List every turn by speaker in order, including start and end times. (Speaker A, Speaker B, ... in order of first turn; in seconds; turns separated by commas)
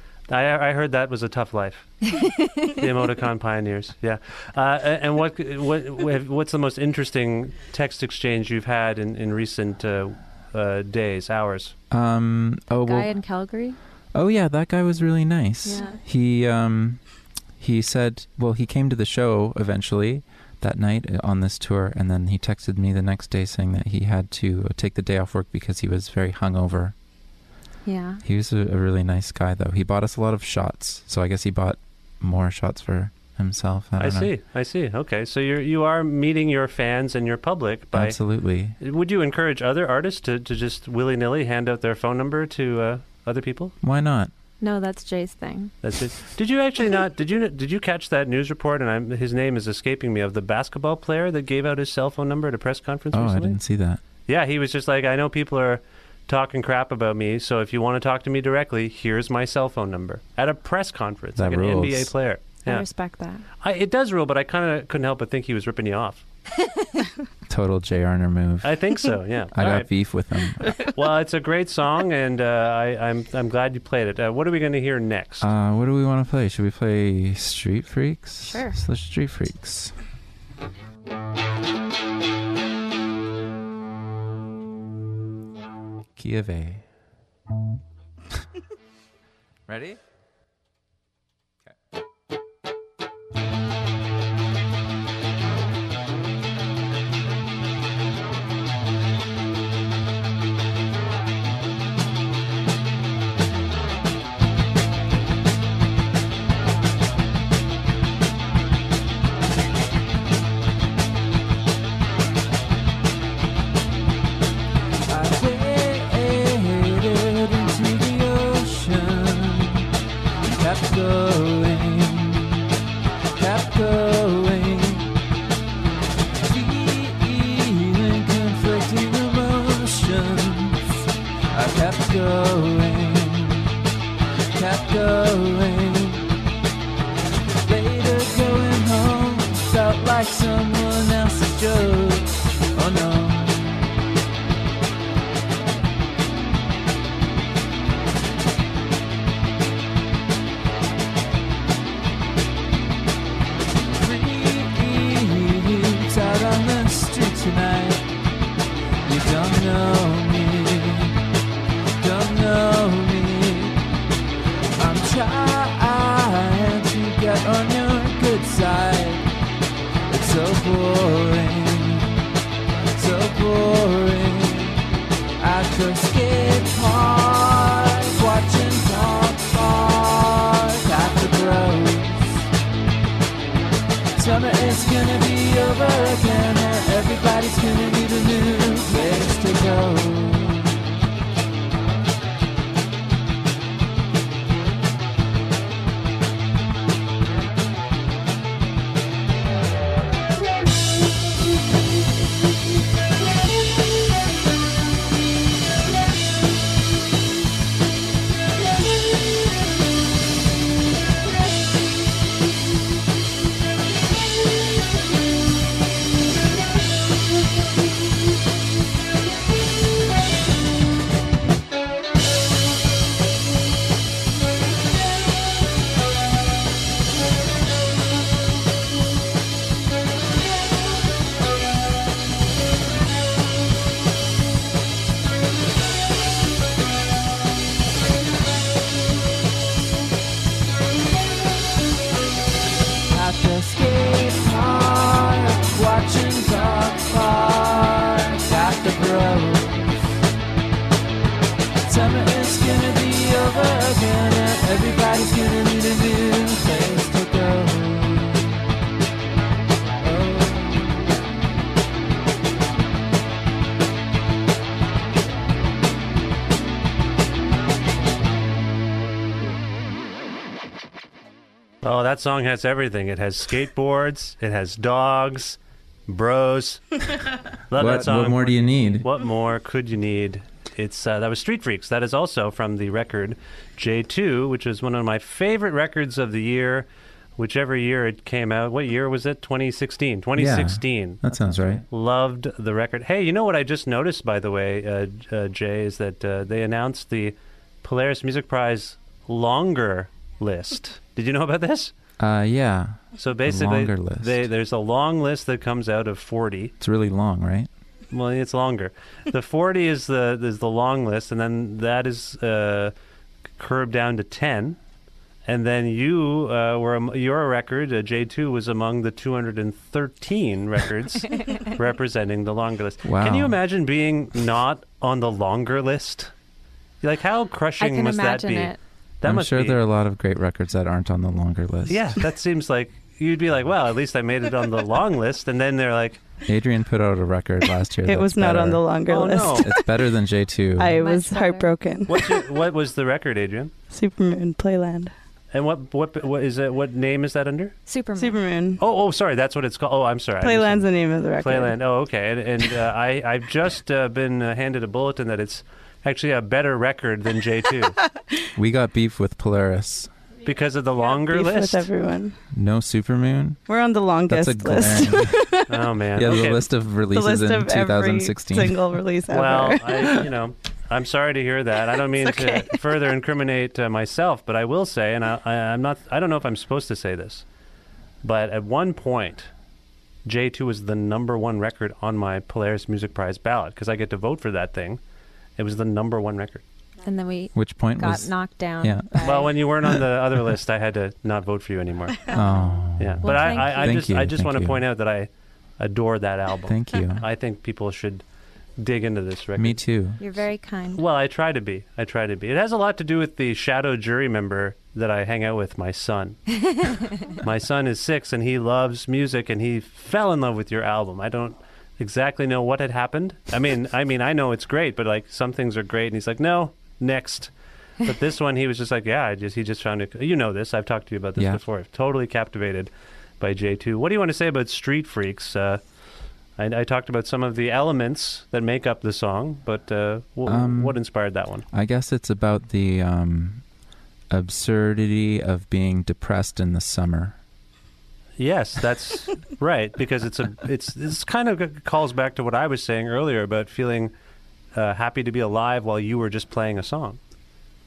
Speaker A: 0.3-2.1, Speaker B: 2.1-2.7, Speaker A: 2.6-11.7, Speaker C: 11.9-13.1, Speaker B: 12.7-13.8, Speaker C: 14.1-17.0, Speaker B: 15.6-16.0, Speaker C: 17.6-26.9, Speaker B: 27.8-28.2, Speaker C: 28.2-34.3, Speaker A: 34.0-38.2, Speaker C: 37.9-38.8, Speaker A: 38.8-43.7, Speaker C: 43.8-44.3, Speaker B: 44.6-45.7, Speaker A: 45.8-53.6, Speaker C: 53.1-54.0, Speaker A: 54.3-62.8, Speaker C: 61.4-62.1, Speaker B: 62.6-63.4, Speaker A: 63.6-66.2, Speaker C: 67.5-70.8, Speaker A: 68.6-69.9, Speaker A: 70.9-75.5, Speaker C: 75.4-79.9, Speaker B: 78.4-78.8, Speaker C: 86.2-86.8, Speaker C: 89.7-90.0, Speaker D: 115.1-119.8, Speaker D: 120.5-122.6, Speaker D: 123.3-125.1, Speaker D: 126.4-130.8, Speaker D: 131.5-133.7, Speaker D: 134.5-136.3, Speaker D: 137.6-143.9, Speaker D: 153.9-158.0, Speaker D: 159.1-161.1, Speaker D: 162.0-163.8, Speaker D: 164.8-169.2, Speaker D: 170.1-172.2, Speaker D: 173.0-174.8, Speaker D: 175.4-182.5, Speaker D: 184.2-190.8, Speaker D: 243.1-250.2, Speaker D: 251.9-258.6, Speaker D: 260.0-261.1, Speaker A: 271.8-277.0, Speaker A: 277.7-301.9, Speaker C: 277.7-279.1, Speaker C: 290.4-291.8, Speaker C: 302.2-304.4, Speaker A: 303.2-306.7, Speaker C: 306.8-307.7, Speaker A: 308.1-312.9, Speaker A: 313.6-314.8, Speaker A: 315.4-326.3, Speaker B: 321.3-321.7, Speaker C: 323.0-323.6, Speaker A: 327.0-329.8, Speaker B: 327.8-328.8, Speaker C: 329.2-332.1, Speaker A: 331.9-336.2, Speaker C: 336.4-338.9, Speaker E: 338.0-339.9, Speaker A: 339.1-339.7, Speaker C: 339.5-341.0, Speaker E: 340.8-342.5, Speaker B: 341.0-341.7, Speaker A: 342.1-343.7, Speaker E: 343.9-345.1, Speaker A: 345.5-347.8, Speaker B: 347.9-348.4, Speaker E: 348.2-348.8, Speaker A: 348.8-358.0, Speaker E: 350.4-351.8, Speaker C: 358.5-360.1, Speaker A: 360.4-361.9, Speaker E: 361.0-362.4, Speaker C: 362.5-363.6, Speaker E: 363.7-365.9, Speaker C: 364.2-365.5, Speaker A: 365.7-366.6, Speaker C: 366.1-368.9, Speaker E: 367.1-370.3, Speaker A: 369.3-377.4, Speaker E: 372.2-372.8, Speaker A: 378.2-379.5, Speaker A: 380.2-385.0, Speaker A: 385.6-386.6, Speaker B: 387.0-389.6, Speaker C: 387.5-390.0, Speaker A: 389.2-392.3, Speaker C: 392.3-394.8, Speaker A: 393.0-398.2, Speaker B: 393.2-394.0, Speaker C: 396.7-397.3, Speaker A: 398.8-399.8, Speaker C: 399.6-400.2, Speaker B: 400.2-401.0, Speaker A: 400.9-417.5, Speaker B: 406.6-407.0, Speaker A: 418.0-425.8, Speaker A: 426.6-431.6, Speaker C: 430.4-431.0, Speaker C: 431.7-433.6, Speaker C: 434.3-437.4, Speaker A: 438.4-444.1, Speaker A: 444.7-447.2